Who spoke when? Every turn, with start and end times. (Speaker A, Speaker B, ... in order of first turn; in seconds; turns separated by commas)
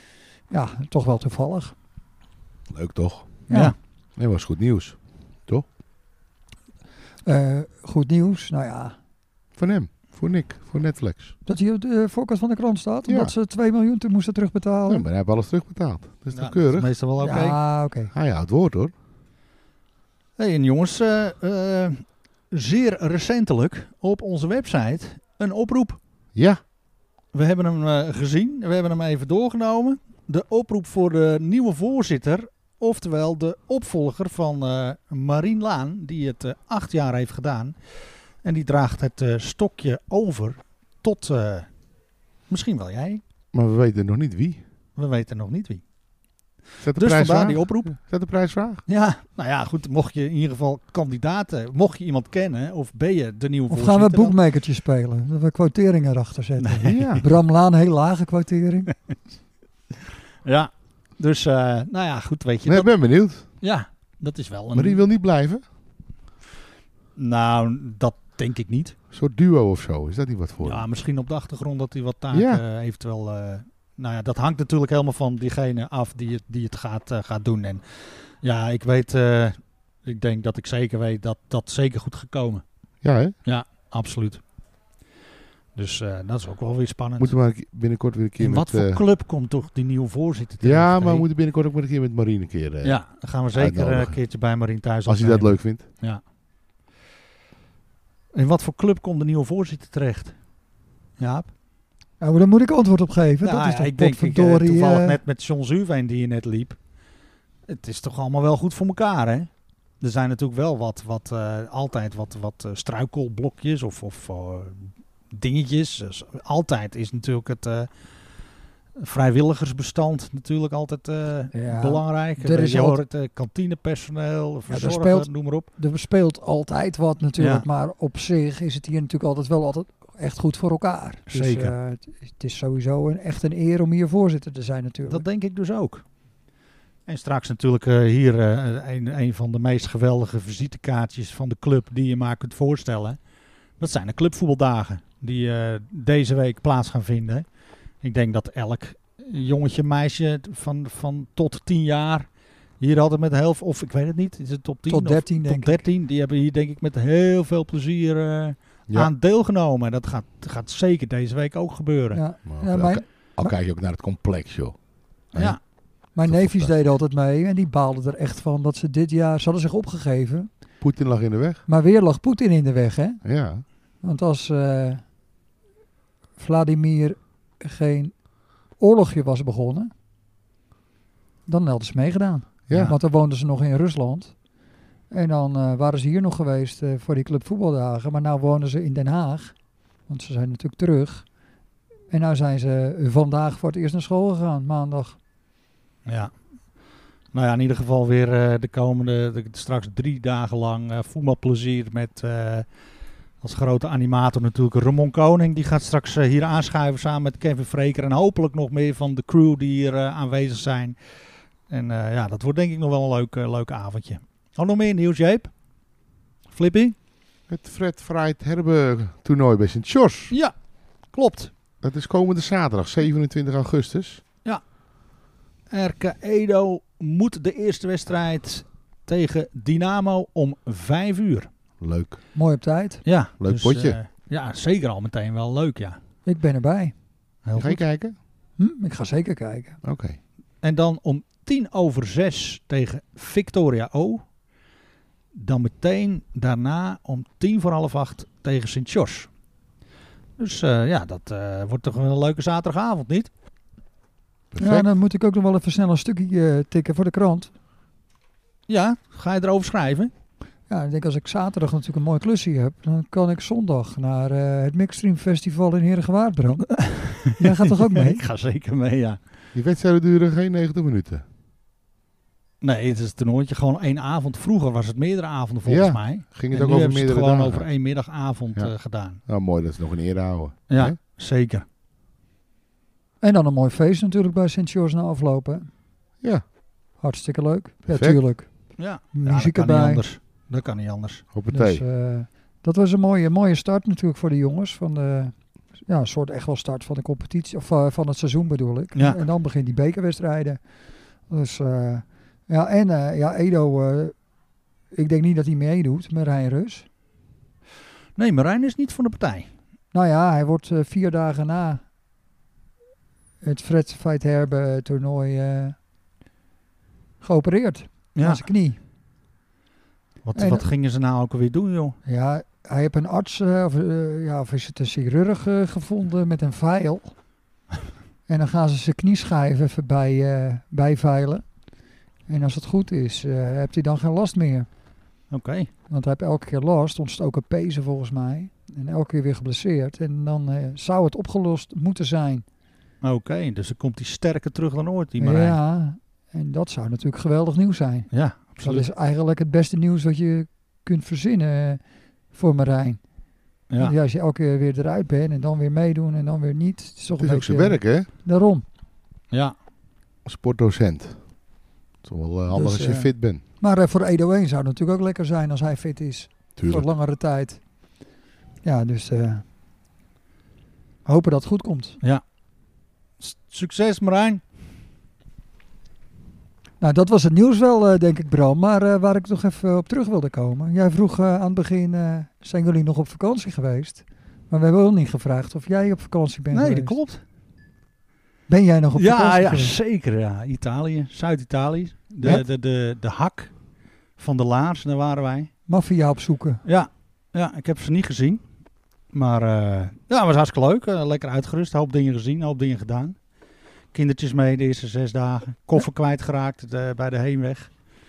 Speaker A: 0.5-1.7, Speaker B: 2.7-3.4, Speaker A: 3.5-3.7, Speaker C: 3.5-3.8, Speaker B: 4.2-5.7, Speaker A: 7.2-8.9, Speaker B: 9.5-11.3, Speaker A: 11.4-15.1, Speaker B: 13.1-13.3, Speaker B: 14.9-16.9, Speaker C: 16.3-17.6, Speaker A: 17.2-18.1, Speaker B: 18.1-18.9, Speaker C: 20.4-26.0, Speaker B: 26.3-26.6, Speaker C: 27.3-41.7, Speaker C: 42.5-43.2, Speaker B: 43.5-44.6, Speaker C: 45.0-45.8, Speaker B: 46.8-48.8, Speaker C: 46.9-47.9, Speaker C: 48.9-54.4, Speaker A: 53.7-58.9, Speaker C: 56.6-57.2, Speaker B: 56.9-57.2, Speaker C: 60.4-65.0, Speaker B: 62.6-63.5, Speaker B: 64.7-65.6, Speaker C: 67.2-68.9, Speaker B: 69.1-70.9, Speaker C: 70.6-82.6, Speaker B: 72.3-72.6, Speaker B: 83.0-83.4, Speaker C: 83.4-84.4, Speaker C: 85.8-87.3, Speaker B: 87.2-89.0, Speaker C: 88.4-91.2, Speaker B: 90.6-93.0, Speaker C: 92.8-96.2, Speaker B: 93.5-94.2, Speaker B: 95.0-95.9, Speaker C: 98.3-100.4, Speaker C: 101.2-101.5, Speaker A: 102.2-105.2, Speaker C: 103.4-106.8, Speaker C: 107.7-117.9, Speaker C: 119.0-125.7, Speaker A: 121.5-123.0, Speaker A: 124.7-135.2, Speaker C: 127.4-127.7, Speaker C: 131.3-131.7, Speaker C: 135.1-136.0, Speaker C: 137.1-143.2, Speaker C: 143.8-147.4, Speaker C: 148.0-152.2, Speaker C: 152.8-162.2, Speaker A: 154.9-155.8, Speaker A: 162.1-163.5, Speaker B: 162.4-164.8, Speaker B: 165.3-166.7, Speaker C: 165.3-165.6, Speaker A: 166.1-170.5, Speaker B: 170.8-171.6, Speaker A: 171.7-173.2, Speaker B: 173.2-173.6, Speaker A: 174.0-175.0, Speaker A: 176.4-178.2, Speaker A: 178.8-179.9, Speaker A: 181.5-184.3, Speaker B: 182.7-182.9, Speaker C: 182.7-182.9, Speaker A: 185.1-189.6, Speaker A: 190.1-191.2, Speaker A: 192.1-195.2, Speaker C: 196.1-196.3, Speaker C: 197.3-202.7, Speaker C: 203.4-211.2, Speaker C: 211.7-215.5, Speaker C: 216.5-216.9, Speaker B: 217.5-220.3, Speaker C: 221.1-221.5, Speaker B: 221.8-224.2, Speaker C: 225.7-231.5, Speaker B: 231.8-232.2, Speaker A: 232.3-233.0, Speaker C: 233.1-236.0, Speaker B: 233.4-234.0, Speaker A: 236.2-236.9, Speaker C: 237.4-237.8, Speaker B: 237.6-238.2, Speaker A: 238.6-239.8, Speaker B: 239.8-240.2, Speaker C: 240.6-244.2, Speaker C: 245.3-249.3, Speaker C: 250.4-253.3, Speaker B: 254.5-254.9, Speaker A: 254.6-257.5, Speaker C: 258.7-260.1, Speaker A: 260.7-268.2, Speaker C: 266.9-269.2, Speaker B: 269.5-271.2, Speaker C: 272.6-279.2, Speaker B: 275.6-277.7, Speaker B: 279.2-280.9, Speaker C: 280.7-281.6, Speaker A: 283.2-285.7, Speaker A: 287.0-290.0, Speaker B: 287.9-288.2, Speaker C: 288.8-291.2, Speaker B: 291.3-291.8, Speaker A: 291.5-300.6, Speaker A: 301.3-304.1, Speaker A: 304.9-306.9, Speaker C: 308.1-309.5, Speaker A: 309.9-311.8, Speaker A: 313.4-315.8, Speaker A: 317.2-318.8, Speaker C: 318.1-318.4, Speaker C: 320.2-322.0, Speaker A: 320.4-320.6, Speaker A: 322.1-327.1, Speaker A: 328.3-331.4, Speaker A: 332.3-334.7, Speaker C: 335.3-335.7, Speaker A: 335.9-342.4, Speaker C: 343.0-345.6, Speaker A: 345.2-351.8, Speaker C: 348.1-348.9, Speaker A: 352.3-353.0, Speaker A: 353.8-358.6, Speaker B: 357.2-358.1, Speaker B: 360.2-361.3, Speaker B: 362.0-363.4, Speaker A: 362.5-367.6, Speaker B: 366.6-366.9, Speaker A: 368.6-369.4, Speaker A: 371.1-372.0, Speaker C: 373.2-374.4, Speaker A: 376.8-387.0, Speaker C: 386.5-387.2, Speaker A: 388.5-389.7, Speaker C: 388.9-393.5, Speaker C: 394.2-395.5, Speaker A: 395.7-396.6, Speaker C: 396.6-398.4, Speaker C: 399.1-403.2, Speaker C: 403.9-407.7